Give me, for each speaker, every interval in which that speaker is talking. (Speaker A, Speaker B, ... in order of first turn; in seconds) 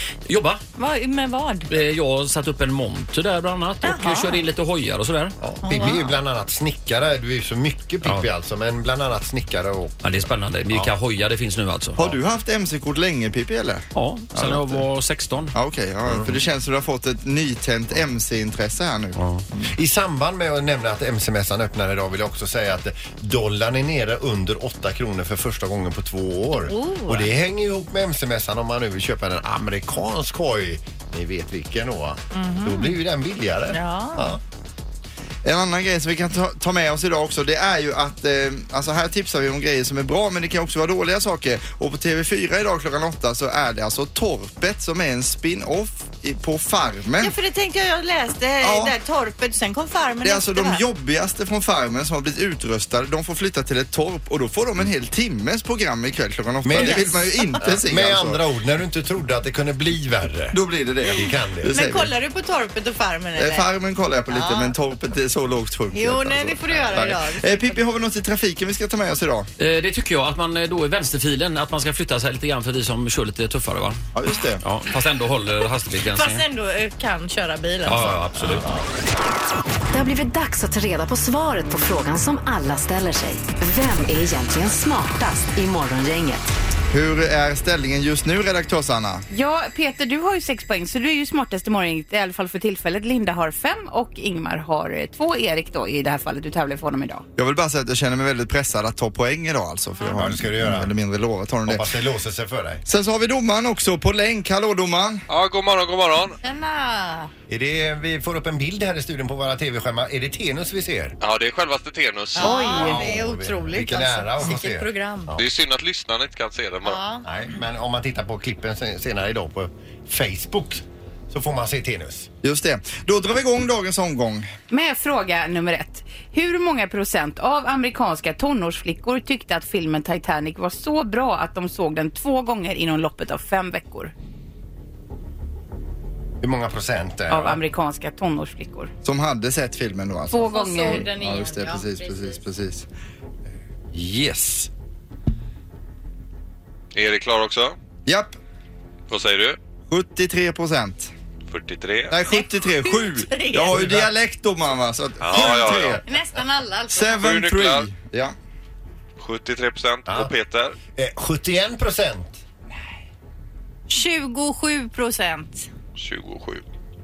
Speaker A: 0.3-0.6, 1.7-5.3, 10.0-12.1, 13.9-15.5, 19.1-19.4, 69.6-74.0, 74.6-76.4, 77.8-78.7
Speaker B: 0.8-1.7, 3.8-4.4, 5.6-6.2, 26.7-27.3, 32.3-32.9, 33.7-34.4, 47.2-50.8, 56.7-57.6, 61.7-63.6, 64.3-64.7, 65.9-67.8, 76.1-78.2, 106.4-107.3, 112.4-115.3, 116.8-117.2, 140.5-142.4, 152.3-153.9, 156.0-157.3, 163.9-165.7
Speaker C: 5.4-10.9, 16.1-16.4, 19.7-34.4, 56.6-61.8, 100.0-100.9, 101.7-102.8, 107.5-111.2, 112.4-115.4, 117.2-122.3, 136.4-137.6, 143.9-144.7, 160.9-162.4
Speaker D: 12.0-14.9, 15.5-19.6, 35.4-47.3, 48.6-48.9, 50.2-58.4, 60.5-62.1, 63.4-69.5, 74.1-74.6, 86.9-89.2, 97.4-101.8, 102.8-105.2, 122.4-124.5, 139.0-142.8, 148.1-148.4, 149.9-151.1, 152.1-156.0, 156.9-158.3
Speaker E: 79.9-86.5
Speaker F: 89.3-97.2, 124.7-134.1, 137.3-138.9, 140.3-141.1
Speaker G: 105.3-106.4, 111.2-113.0, 115.4-117.0, 146.9-147.8, 149.1-149.6, 151.5-152.2, 155.2-156.0, 157.2-157.9, 159.2-160.8, 165.9-166.6